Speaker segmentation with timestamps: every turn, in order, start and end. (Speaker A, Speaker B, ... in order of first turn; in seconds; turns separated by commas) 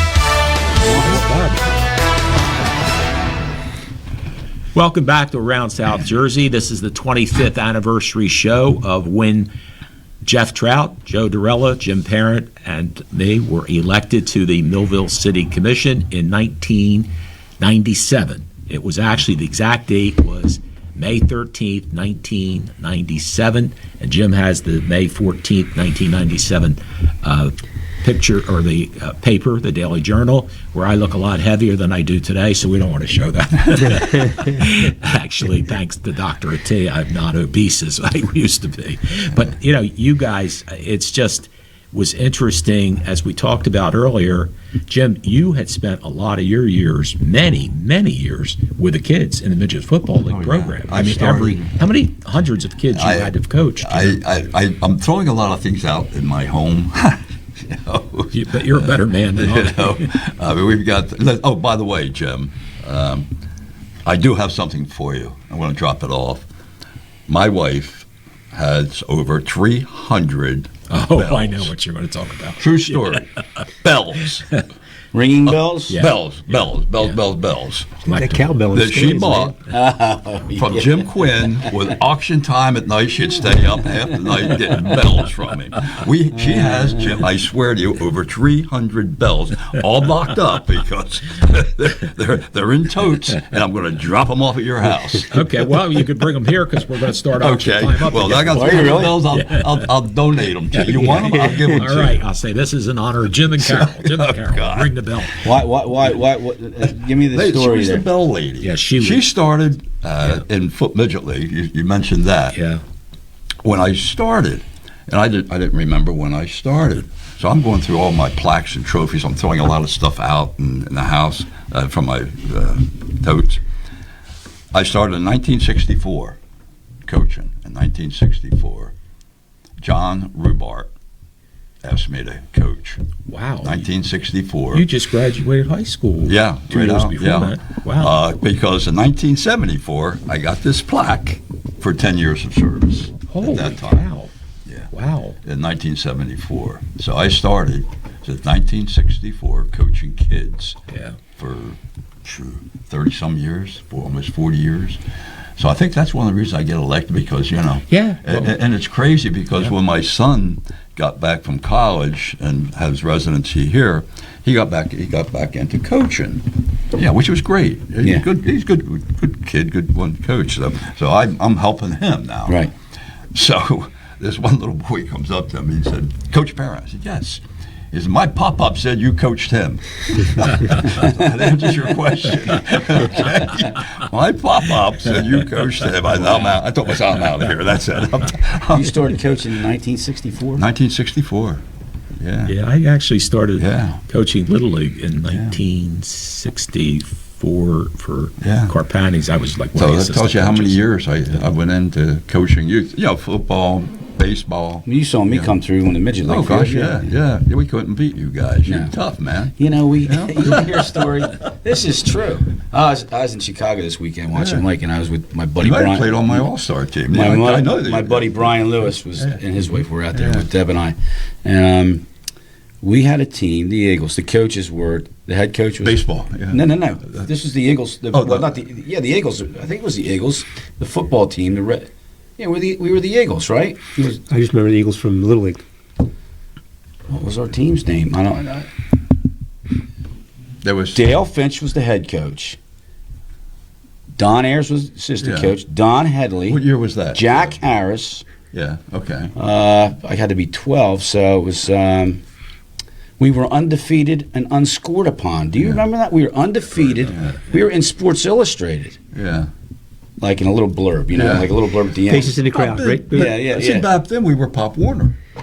Speaker A: 0.9-1.8, Speaker A: 4.7-9.5, Speaker A: 10.2-54.2, Speaker B: 50.2-51.7, Speaker B: 52.9-63.3, Speaker A: 58.3-60.1, Speaker B: 64.0-66.5, Speaker B: 67.3-71.7, Speaker A: 70.9-73.2, Speaker B: 72.6-74.6, Speaker C: 75.1-76.0, Speaker B: 75.5-78.2, Speaker A: 75.9-76.2, Speaker A: 78.0-78.4, Speaker D: 78.1-79.5, Speaker B: 78.7-79.6, Speaker C: 79.7-81.6, Speaker B: 80.5-95.3, Speaker A: 95.3-99.9, Speaker B: 97.4-102.2, Speaker C: 98.5-99.1, Speaker A: 100.7-105.5, Speaker B: 103.6-104.9, Speaker C: 105.4-108.0, Speaker B: 106.8-112.6, Speaker A: 108.6-109.2, Speaker A: 112.5-112.8, Speaker B: 113.6-123.6, Speaker B: 124.7-126.4, Speaker B: 127.0-128.9, Speaker B: 129.8-130.9, Speaker B: 131.8-133.0, Speaker A: 133.3-133.8, Speaker B: 133.6-134.8, Speaker A: 134.7-138.1, Speaker B: 136.2-144.1, Speaker A: 143.3-144.3, Speaker A: 144.9-145.3, Speaker B: 145.4-150.8, Speaker B: 151.3-155.0, Speaker B: 155.6-172.7, Speaker A: 157.9-158.5, Speaker B: 173.3-188.9, Speaker C: 188.7-190.6, Speaker B: 190.6-191.6, Speaker B: 192.2-192.5, Speaker A: 192.5-200.8, Speaker B: 193.6-194.0, Speaker B: 195.3-195.6, Speaker B: 198.4-198.7, Speaker B: 199.7-205.5, Speaker C: 204.8-207.1, Speaker B: 206.2-211.3, Speaker C: 208.7-208.9, Speaker C: 209.6-216.5, Speaker B: 214.3-214.6, Speaker B: 215.6-219.2, Speaker C: 217.1-222.0, Speaker B: 220.1-220.4, Speaker C: 222.8-234.2, Speaker B: 225.8-227.2, Speaker B: 228.1-228.5, Speaker D: 234.2-235.6, Speaker C: 237.1-238.7, Speaker B: 240.6-241.1, Speaker C: 240.9-242.6, Speaker C: 244.2-246.6, Speaker B: 245.2-245.6, Speaker B: 246.5-247.6, Speaker C: 247.1-248.2, Speaker B: 248.5-249.3, Speaker C: 249.3-252.2, Speaker C: 253.2-259.0, Speaker B: 257.1-257.4, Speaker B: 259.1-259.5, Speaker C: 260.2-262.4, Speaker B: 261.1-261.5, Speaker D: 262.1-263.3, Speaker B: 262.4-265.1, Speaker C: 263.1-263.9